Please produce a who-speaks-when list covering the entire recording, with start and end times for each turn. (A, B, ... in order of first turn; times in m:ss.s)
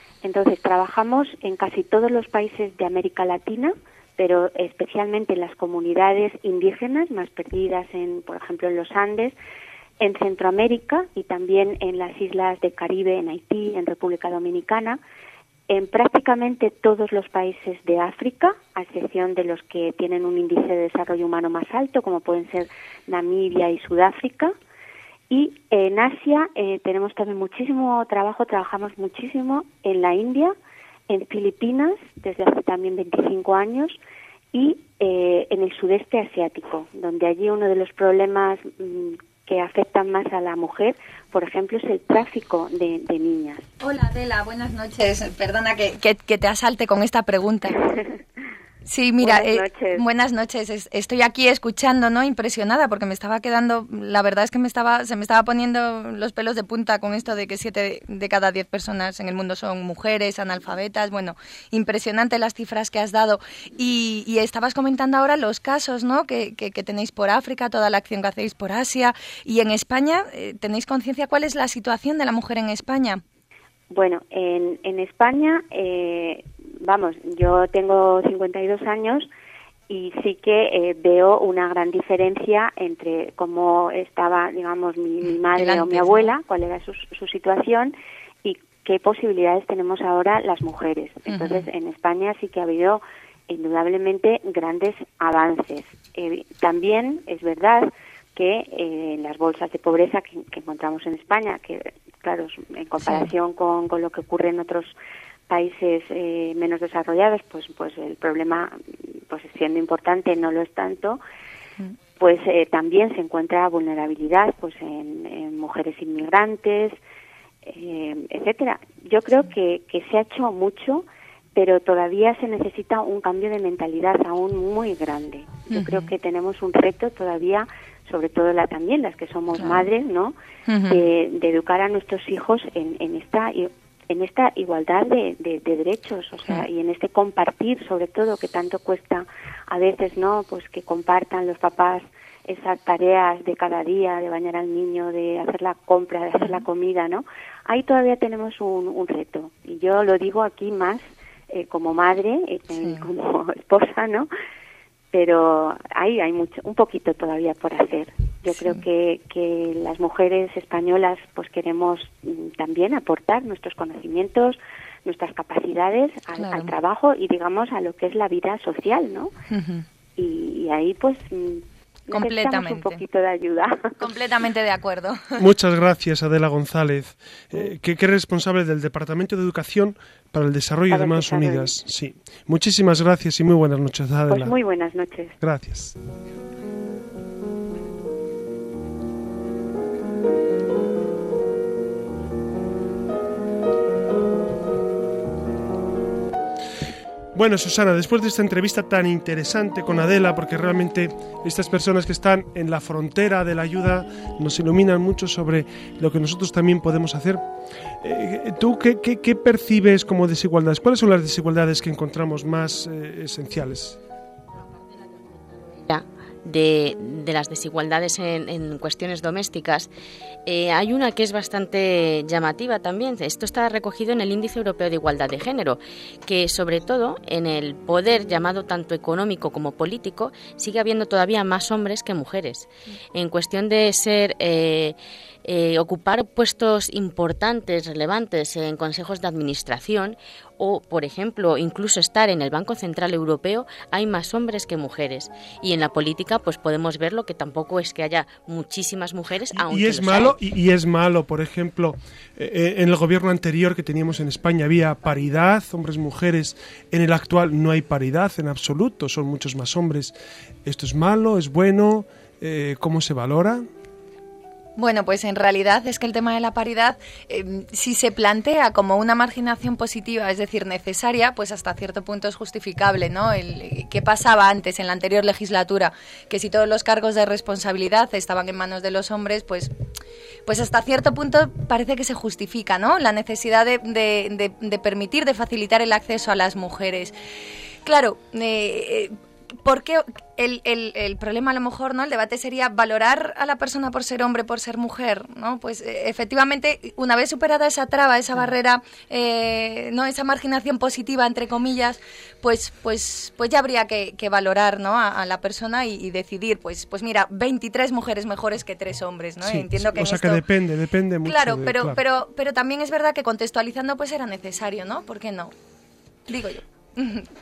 0:00.2-0:09.4 A
0:10.0-0:15.0 A
0:15.7-0:24.5 A
0:25.3-0:30.5 A
0:31.1-0:34.0 A
0:34.5-0:43.7 A
0:43.8-0:47.8 B
0:48.9-1:13.2 B
0:49.2-0:50.0 A
1:13.9-1:19.3 A
1:19.9-1:44.9 A
1:25.6-1:26.4 B
1:31.3-1:31.7 B
1:45.5-1:48.7 A
1:49.3-1:51.2 A
1:52.2-1:57.0 A
1:57.6-2:10.4 A
2:05.7-2:06.1 B
2:09.6-2:09.9 B
2:10.7-2:11.0 B
2:10.9-2:34.3 A
2:32.8-2:33.1 B
2:35.1-2:49.3 A
2:38.5-2:38.8 B
2:46.4-2:46.7 B
2:49.5-2:49.8 B
2:50.2-2:54.0 A
2:52.1-2:53.0 B
2:54.0-2:55.4 B
2:55.4-3:04.6 C
3:00.9-3:01.7 A
3:04.3-3:05.4 A
3:05.4-3:06.0 C
3:17.3-3:27.4 C
3:28.0-3:34.0 C
3:35.9-3:39.9 D
3:40.5-4:10.4 D
4:09.5-4:20.1 C
4:20.7-4:23.7 C
4:24.8-4:39.7 B
4:40.5-4:47.1 B
4:47.9-4:49.1 B
4:49.6-5:10.4 B
5:09.4-5:12.0 C
5:11.2-5:15.5 B
5:16.3-5:17.3 B